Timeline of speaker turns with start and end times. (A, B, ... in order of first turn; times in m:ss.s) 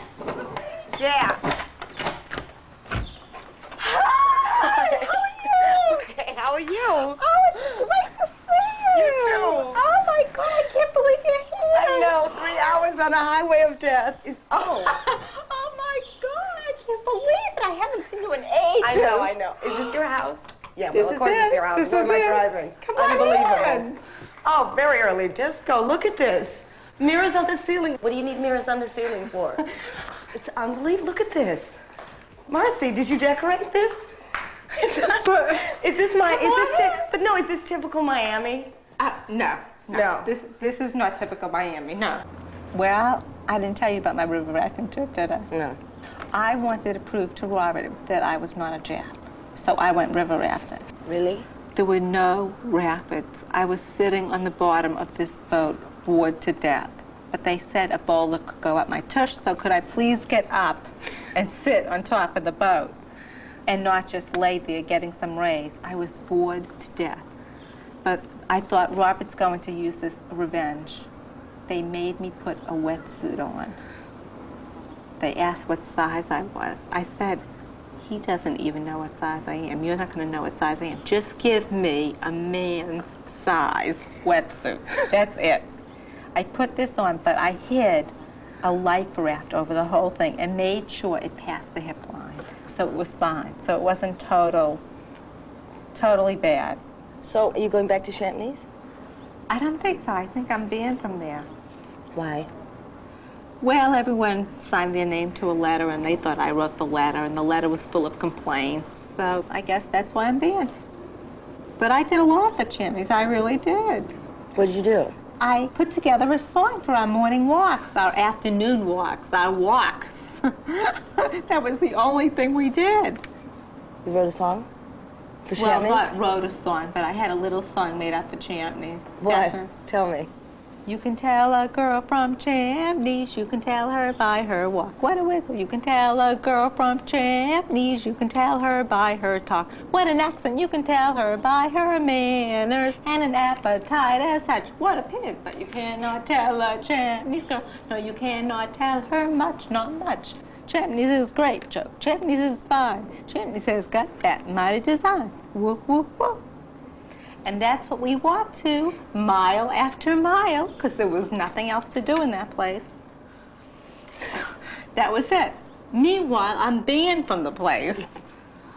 0:00.9-0:01.4 A
0:03.8-0:07.8 A
0:04.5-0:06.0 B
0:07.1-0:12.6 B
0:08.9-0:09.8 A
0:11.7-0:15.0 A
0:14.7-0:19.9 B
0:18.8-0:23.9 A
0:20.9-0:24.0 B
0:24.4-0:29.7 A
0:30.3-0:31.8 A
0:32.5-0:34.0 A
0:34.7-0:38.7 A
0:36.3-0:37.0 B
0:39.0-0:45.5 B
0:39.9-0:40.3 A
0:45.5-0:45.8 A
0:46.3-0:50.9 B
0:51.0-0:51.5 A
0:51.8-1:03.0 B
1:03.7-1:07.3 B
1:08.0-1:11.1 B
1:11.7-1:13.8 B
1:15.2-1:17.4 B
1:18.0-1:25.7 B
1:26.4-1:34.8 B
1:35.9-1:36.8 B
1:37.2-1:38.6 A
1:39.5-1:41.5 B
1:42.2-1:42.5 A
1:43.6-1:50.8 B
1:51.8-1:54.1 B
1:54.6-1:55.2 A
1:55.4-2:03.2 B
2:04.0-2:04.7 A
2:05.5-2:06.1 A
2:05.6-2:09.7 B
2:09.2-2:10.3 A
2:10.9-2:36.4 B
2:37.4-2:43.0 B
2:45.0-2:48.2 B